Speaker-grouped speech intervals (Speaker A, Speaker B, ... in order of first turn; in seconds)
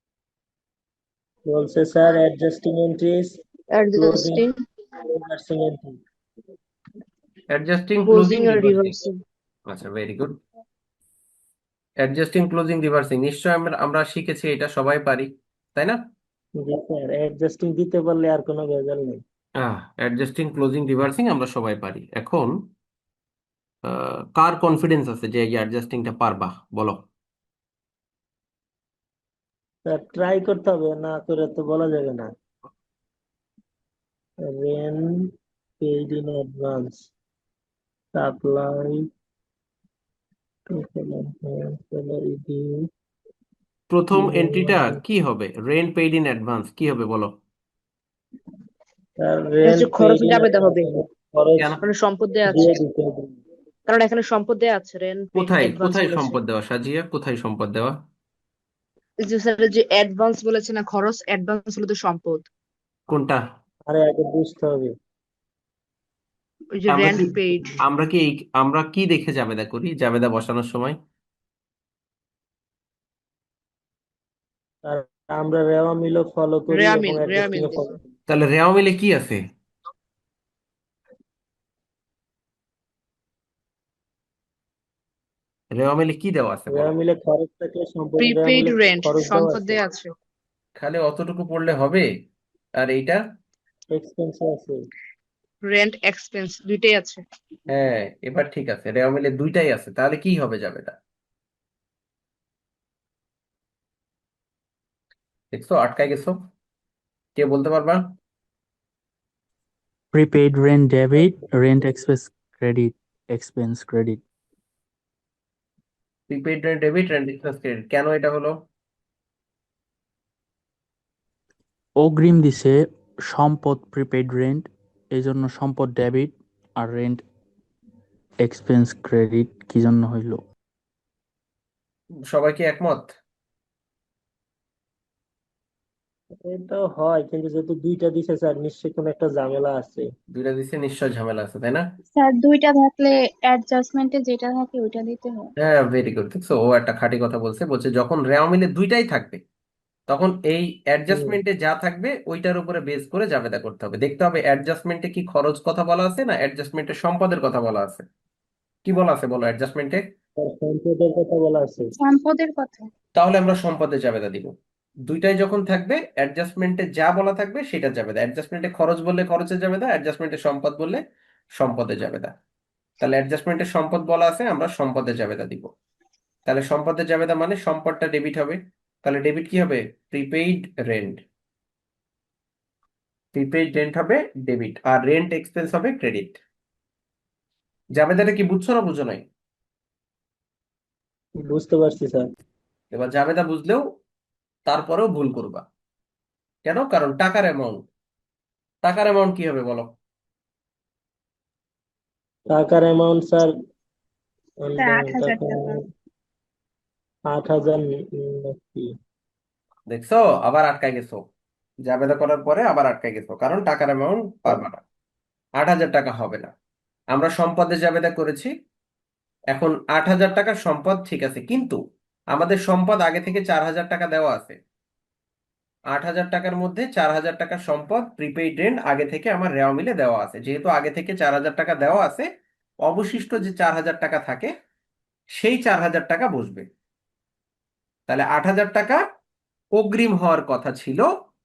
Speaker A: 1.5-3.3, 4.0-4.4, 5.1-5.9, 16.6-19.2, 29.9-32.3, 34.5-35.0, 35.8-37.1, 38.1-39.0, 40.7-42.8, 44.1-45.0, 49.2-51.8, 52.5-53.3, 63.9-64.9, 74.8-78.0, 86.7-89.8, 93.9-94.8, 136.4-140.1, 151.1-151.4, 160.4-161.9, 191.4-192.2, 202.5-203.5, 204.6-205.7, 207.3-208.9
Speaker B: 3.7-4.5, 8.1-9.1, 49.6-50.9, 51.8-52.8, 53.9-56.4, 59.2-62.5, 66.8-67.8, 76.7-77.9, 88.2-90.1, 95.7-97.2
Speaker C: 7.5-8.9, 9.7-10.4, 12.0-16.0, 19.6-22.6, 23.8-27.0, 43.9-47.3, 55.3-57.9, 63.1-63.4, 66.9-71.0, 78.3-79.4, 85.8-86.9, 90.8-92.0, 92.8-93.2, 97.7-101.0, 105.5-106.3, 107.3-108.0, 116.3-118.5, 132.3-133.1, 140.3-141.8, 145.6-149.4, 150.1-158.0, 158.8-160.0, 163.2-164.5, 165.1-171.0, 171.5-172.3, 173.0-175.7, 176.4-181.2, 183.3-186.4, 187.9-189.2, 192.9-193.8, 194.7-195.6, 196.7-197.8, 198.8-199.9, 209.9-211.2, 211.8-214.8, 215.6-216.5, 217.1-218.5, 219.5-221.8, 222.3-224.6, 225.9-232.2, 232.8-234.5, 235.4-236.6, 238.1-239.0, 239.8-241.1
Speaker D: 110.1-114.2, 122.0-127.2, 128.4-130.4
Speaker E: 142.2-145.4, 162.0-162.9, 204.8-205.8